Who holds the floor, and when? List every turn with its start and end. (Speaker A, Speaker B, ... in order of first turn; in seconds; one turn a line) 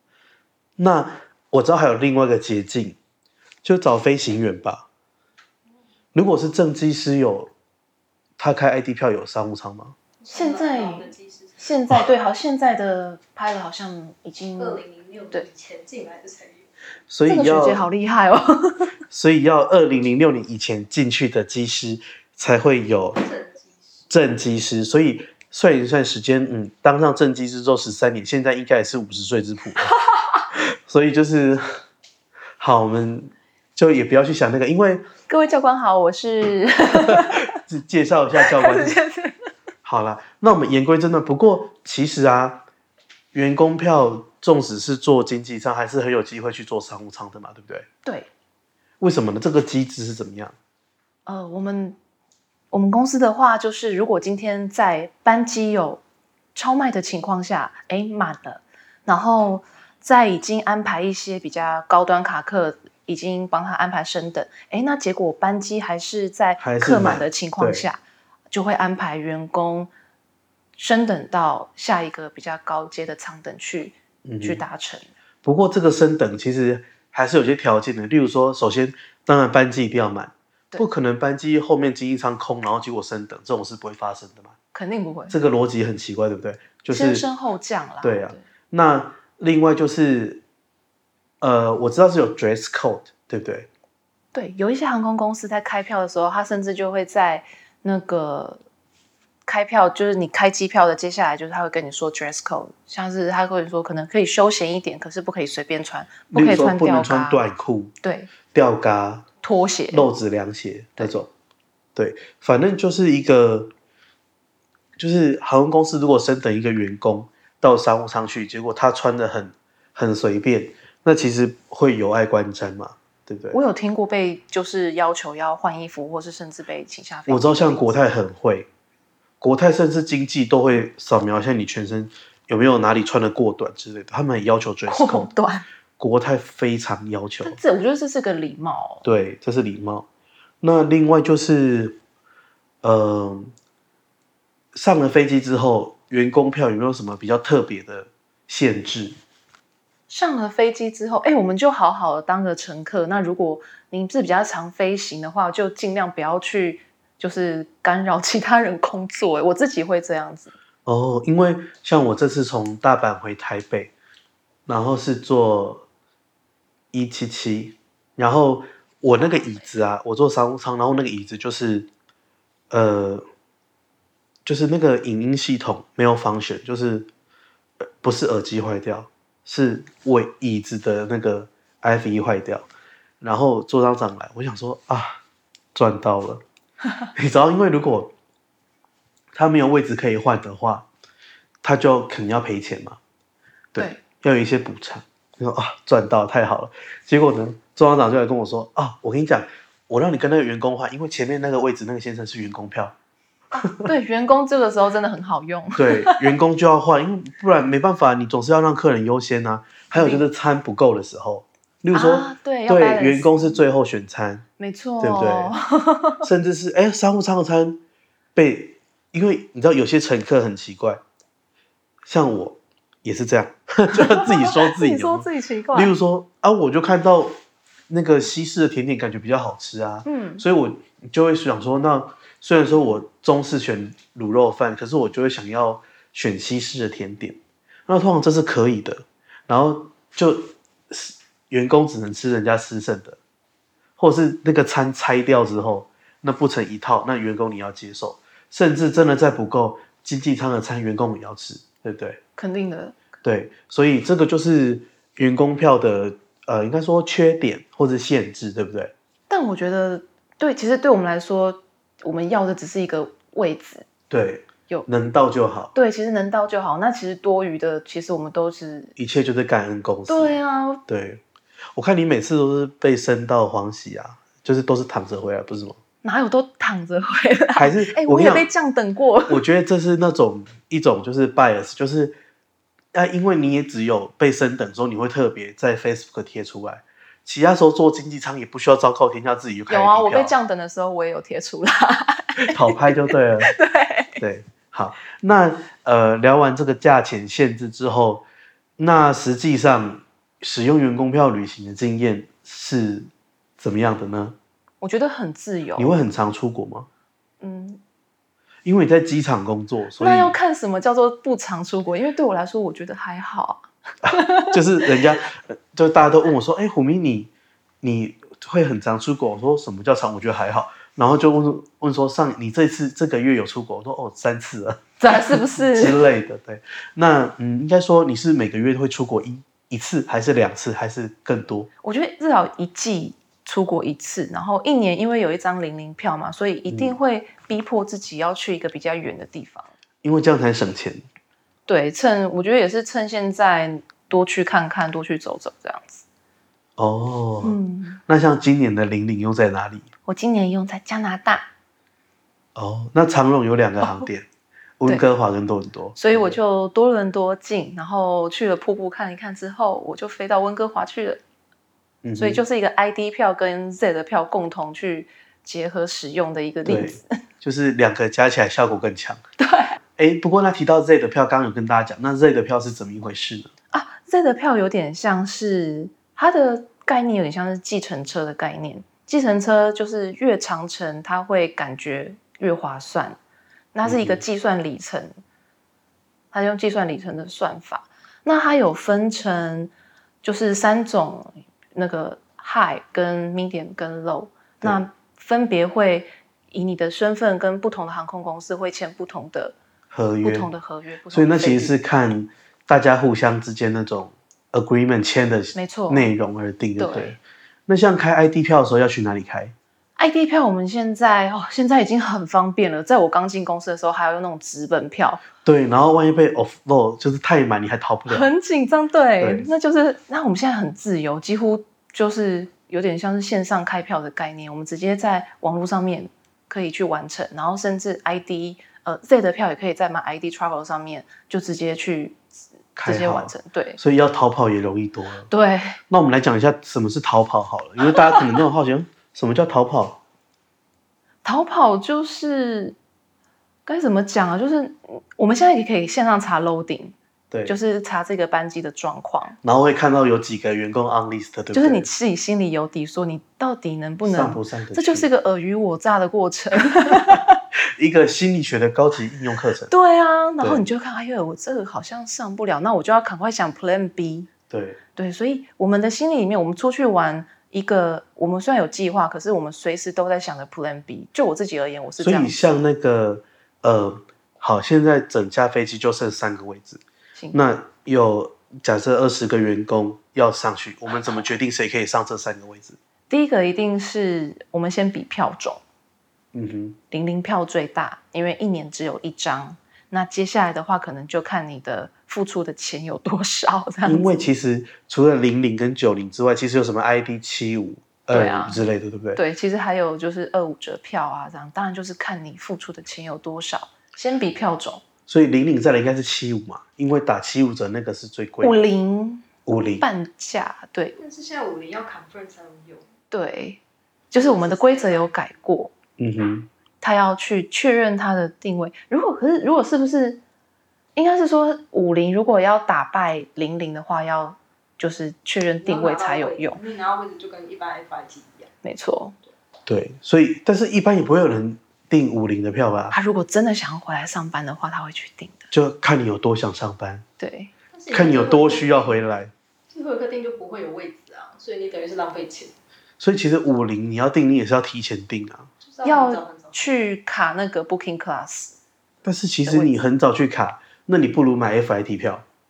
Speaker A: 0.8-3.0
Speaker A: 3.6-4.9
Speaker A: 6.1-7.5
Speaker A: 8.4-9.9
Speaker B: 10.2-11.7
Speaker C: 10.3-14.8
Speaker B: 14.6-16.7
Speaker A: 17.1-17.9
Speaker C: 17.3-18.9
Speaker A: 19.1-23.2
Speaker B: 23.2-24.1
Speaker A: 24.1-29.9
Speaker C: 30.1-30.4
Speaker A: 30.5-31.6
Speaker A: 32.6-35.0
Speaker C: 35.3-37.5
Speaker A: 37.0-39.0
Speaker C: 38.4-39.5
Speaker A: 39.8-42.6
Speaker A: 43.3-47.9
Speaker A: 49.0-50.5
Speaker C: 51.2-52.0
Speaker C: 52.7-56.0
Speaker C: 56.5-68.0
Speaker A: 66.6-67.8
Speaker C: 68.5-69.9
Speaker C: 70.8-75.1
Speaker A: 74.2-74.6
Speaker A: 75.4-84.5
Speaker C: 84.7-85.4
Speaker A: 85.3-87.2
Speaker C: 86.9-88.4
Speaker A: 88.0-90.4
Speaker A: 91.4-93.7
Speaker C: 94.3-98.6
Speaker C: 99.5-107.4
Speaker A: 106.3-107.9
Speaker C: 108.0-108.3
Speaker A: 108.5-109.2
Speaker C: 109.4-110.1
Speaker A: 109.9-111.3
Speaker A: 112.0-113.7
Speaker A: 115.0-123.6
Speaker C: 123.5-128.0
Speaker A: 127.3-128.7
Speaker A: 129.4-135.3
Speaker C: 134.9-135.7
Speaker A: 136.0-137.6
Speaker C: 137.4-139.1
Speaker A: 139.0-140.1
Speaker A: 140.6-142.0
Speaker A: 142.8-143.5
Speaker A: 144.7-149.2
Speaker C: 150.1-160.5
Speaker A: 160.8-163.9
Speaker A: 164.7-165.8
Speaker A: 166.9-171.9
Speaker C: 169.2-169.6
Speaker A: 172.7-173.2
Speaker A: 174.4-177.1
Speaker A: 177.9-182.7
Speaker A: 183.2-185.2
Speaker A: 185.7-186.4
Speaker A: 187.1-188.1
Speaker A: 189.3-190.9
Speaker A: 191.6-193.0
Speaker A: 193.7-202.9
Speaker C: 203.5-206.3
Speaker A: 205.8-214.4
Speaker C: 209.9-210.2
Speaker C: 211.9-213.6
Speaker C: 214.6-216.2
Speaker A: 215.0-215.5
Speaker A: 216.2-217.8
Speaker A: 218.3-221.0
Speaker A: 222.0-227.3
Speaker C: 223.9-225.9
Speaker A: 227.9-243.2
Speaker C: 230.0-230.4
Speaker A: 244.0-252.2
Speaker C: 252.4-253.0
Speaker A: 253.2-258.9
Speaker C: 259.3-263.9
Speaker A: 264.1-265.7
Speaker C: 265.7-268.9
Speaker A: 269.0-270.4
Speaker C: 270.1-270.8
Speaker A: 270.9-271.2
Speaker A: 271.7-275.8
Speaker C: 276.0-279.4
Speaker A: 277.6-278.5
Speaker A: 279.3-282.2
Speaker A: 282.9-290.3
Speaker C: 289.7-294.2
Speaker A: 292.5-293.5
Speaker A: 294.2-298.2
Speaker A: 298.8-304.4
Speaker C: 304.8-305.9
Speaker A: 305.8-306.9
Speaker C: 307.4-307.8
Speaker A: 308.6-310.3
Speaker C: 310.0-314.6
Speaker A: 314.0-317.3
Speaker A: 317.8-331.7
Speaker C: 325.0-326.0
Speaker C: 331.8-339.7
Speaker A: 336.7-337.0
Speaker A: 340.0-341.1
Speaker C: 341.7-346.0
Speaker A: 346.8-349.9
Speaker C: 347.4-348.0
Speaker C: 350.1-351.5
Speaker A: 352.5-354.3
Speaker A: 354.8-356.4
Speaker C: 355.9-361.2
Speaker A: 362.0-362.4
Speaker C: 362.2-367.1
Speaker A: 366.6-369.2
Speaker C: 369.4-369.8
Speaker A: 370.0-373.5
Speaker C: 373.7-383.2
Speaker C: 383.7-385.1
Speaker A: 383.8-384.2
Speaker C: 386.3-389.7
Speaker C: 390.2-399.6
Speaker A: 399.9-400.5
Speaker C: 400.2-401.8
Speaker A: 401.1-409.5
Speaker C: 405.5-406.1
Speaker C: 406.8-407.2
Speaker C: 410.0-415.2
Speaker A: 415.4-418.3
Speaker C: 418.1-432.2
Speaker A: 419.2-419.5
Speaker A: 432.8-435.3
Speaker C: 432.8-433.8
Speaker C: 435.3-435.8
Speaker A: 435.9-440.0
Speaker C: 441.2-442.8
Speaker C: 443.6-449.4
Speaker A: 449.4-451.9
Speaker C: 451.5-457.4
Speaker A: 454.0-455.1
Speaker A: 456.9-457.2
Speaker A: 457.8-459.7
Speaker C: 459.7-464.3
Speaker A: 464.5-464.8
Speaker C: 464.9-472.4
Speaker A: 472.0-482.8
Speaker C: 483.1-485.6
Speaker A: 486.3-486.8
Speaker C: 486.9-494.2
Speaker A: 493.9-499.2
Speaker C: 498.1-504.8
Speaker A: 505.1-508.6
Speaker C: 508.4-509.3
Speaker A: 509.4-509.8
Speaker C: 509.8-511.0
Speaker B: 511.0-512.9
Speaker C: 513.1-515.7
Speaker B: 514.1-515.1
Speaker A: 516.0-516.5
Speaker C: 516.8-520.2
Speaker C: 521.0-526.6
Speaker B: 525.6-528.5
Speaker C: 528.6-529.1
Speaker A: 529.7-532.9
Speaker C: 532.9-535.5
Speaker A: 535.5-537.0
Speaker C: 537.2-537.5
Speaker B: 537.7-539.0
Speaker A: 537.9-539.3
Speaker B: 539.7-542.5
Speaker A: 543.0-545.5
Speaker B: 545.6-546.7
Speaker C: 545.8-548.6
Speaker A: 549.0-552.2
Speaker C: 549.4-549.7